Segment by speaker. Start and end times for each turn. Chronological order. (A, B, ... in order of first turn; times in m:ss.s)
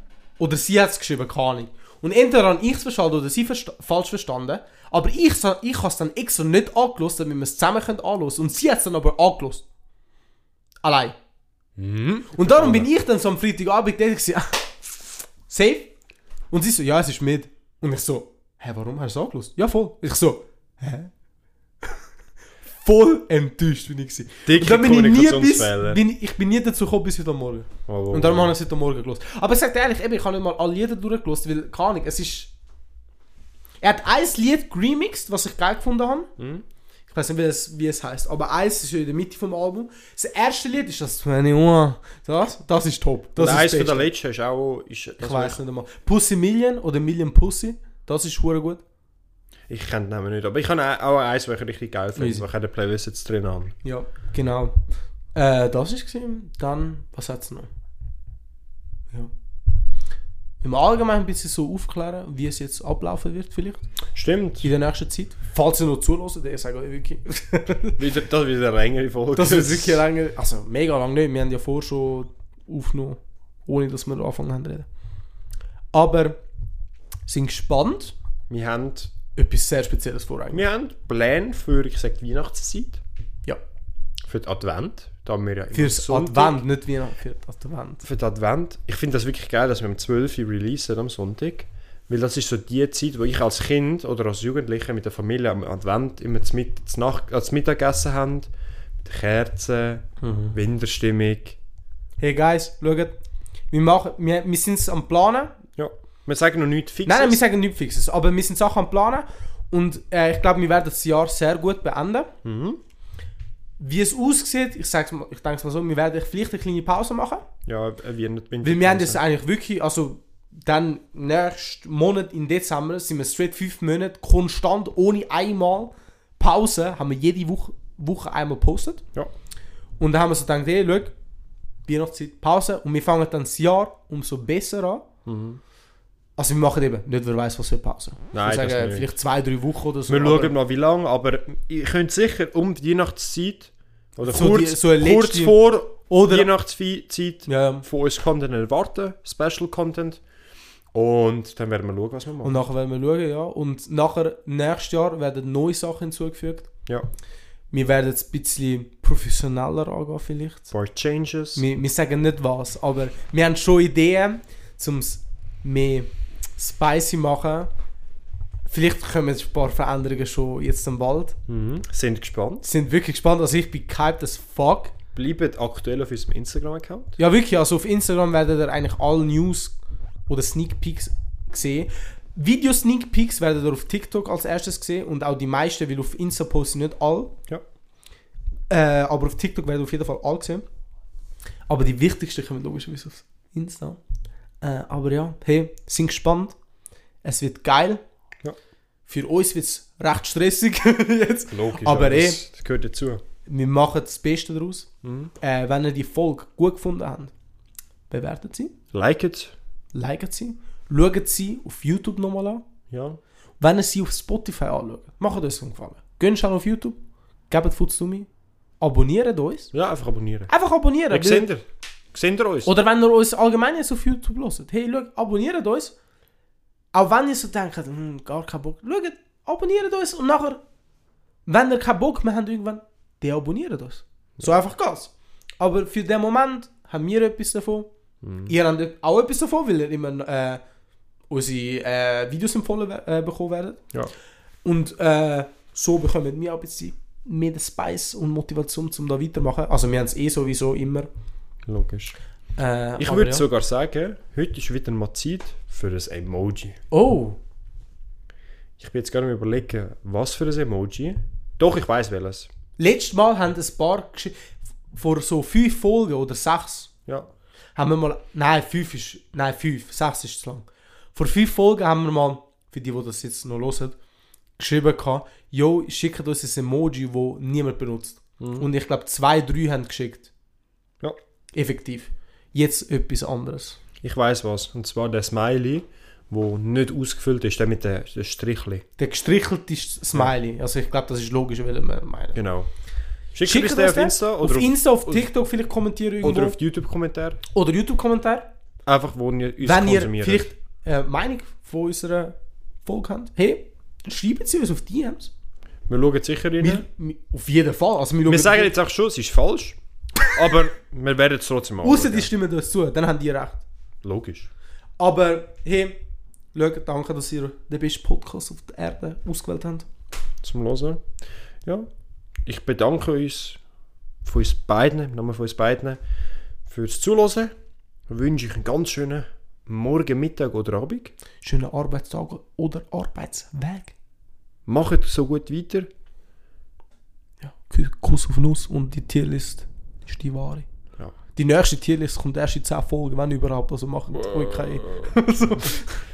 0:00.4-0:09.6 A
0:10.8-0:11.2 A
0:11.8-0:12.9 B
0:12.3-0:14.7 A
0:15.5-0:15.9 A
0:16.5-0:21.1 A
0:22.8-0:32.5 A
0:24.4-0:26.0 B
0:27.9-0:28.5 B
0:33.8-0:36.3 A
0:36.4-0:36.6 B
0:37.1-0:44.1 A
0:43.4-0:45.6 B
0:45.2-0:48.8 A
0:49.7-0:53.7 B
0:52.2-0:52.4 A
0:53.8-0:54.8 A
0:55.3-0:57.7 A
1:00.6-1:03.8 A
1:04.1-1:04.7 B
1:04.6-1:08.0 A
1:08.0-1:10.0 B
1:09.3-1:14.9 A
1:15.9-1:16.4 A
1:17.3-1:18.1 A
1:18.5-1:19.1 B
1:19.4-1:20.6 A
1:20.5-1:23.0 B
1:24.2-1:26.6 B
1:25.7-1:28.0 A
1:28.0-1:38.5 B
1:39.0-1:41.6 B
1:40.2-1:40.6 A
1:42.2-1:43.1 A
1:43.7-1:45.5 A
1:45.8-1:47.4 B
1:47.0-1:52.3 A
1:52.4-1:52.8 B
1:53.8-1:57.4 A
1:57.6-1:59.2 B
1:58.6-2:09.0 A
2:10.0-2:11.1 A
2:11.9-2:15.0 A
2:15.2-2:15.6 B
2:16.4-2:20.5 A
2:18.3-2:19.1 B
2:20.1-2:30.2 B
2:24.2-2:26.5 A
2:27.5-2:27.8 A
2:30.9-2:32.6 B
2:32.4-2:36.7 A
2:37.7-2:40.7 A
2:40.7-2:41.6 B
2:41.5-2:47.7 A
2:48.7-2:51.4 A
2:51.5-2:52.6 B
2:52.6-2:54.9 A
2:55.1-2:57.2 B
2:57.2-2:59.8 A
3:00.3-3:07.4 A
3:08.7-3:10.6 A
3:11.7-3:14.0 A
3:14.6-3:16.6 A
3:17.2-3:18.0 A
3:19.1-3:22.4 A
3:21.5-3:23.2 B
3:23.4-3:24.9 A
3:25.0-3:25.3 B
3:25.4-3:27.3 A
3:28.1-3:28.7 A
3:28.9-3:29.5 B
3:29.9-3:32.6 A
3:32.9-3:33.2 B
3:33.6-3:37.0 A
3:37.5-3:38.3 A
3:38.8-3:39.7 A
3:39.7-3:40.5 B
3:40.5-3:41.5 A
3:41.1-3:42.7 B
3:42.6-3:45.9 A
3:46.9-3:50.6 A
3:51.4-3:57.9 A
3:58.2-3:58.5 B
3:58.4-4:00.6 A
4:01.3-4:03.8 A
4:04.6-4:11.1 A
4:11.7-4:12.2 B
4:12.6-4:13.4 A
4:13.0-4:16.8 B
4:16.9-4:17.4 A
4:18.8-4:22.5 B
4:22.8-4:24.3 A
4:24.9-4:26.9 A
4:27.8-4:34.0 A
4:34.6-4:40.3 A
4:38.4-4:38.6 B
4:41.5-4:43.8 A
4:44.0-4:48.8 B
4:49.0-4:52.4 A
4:52.3-4:52.7 B
4:53.3-4:55.2 B
4:53.4-4:56.6 A
4:56.2-4:57.4 B
4:57.5-4:58.5 A
4:58.8-5:00.5 B
4:59.6-5:05.3 A
5:05.9-5:06.8 B
5:06.6-5:08.7 A
5:08.2-5:12.3 B
5:11.8-5:13.6 A
5:14.0-5:14.5 B
5:15.0-5:16.0 A
5:16.5-5:19.8 A
5:20.4-5:21.0 B
5:22.4-5:23.6 B
5:24.2-5:26.0 B
5:26.6-5:27.5 B
5:28.1-5:31.1 B
5:31.4-5:33.9 A
5:34.6-5:35.9 B
5:37.4-5:40.6 A
5:41.4-5:46.0 A
5:44.1-5:45.1 B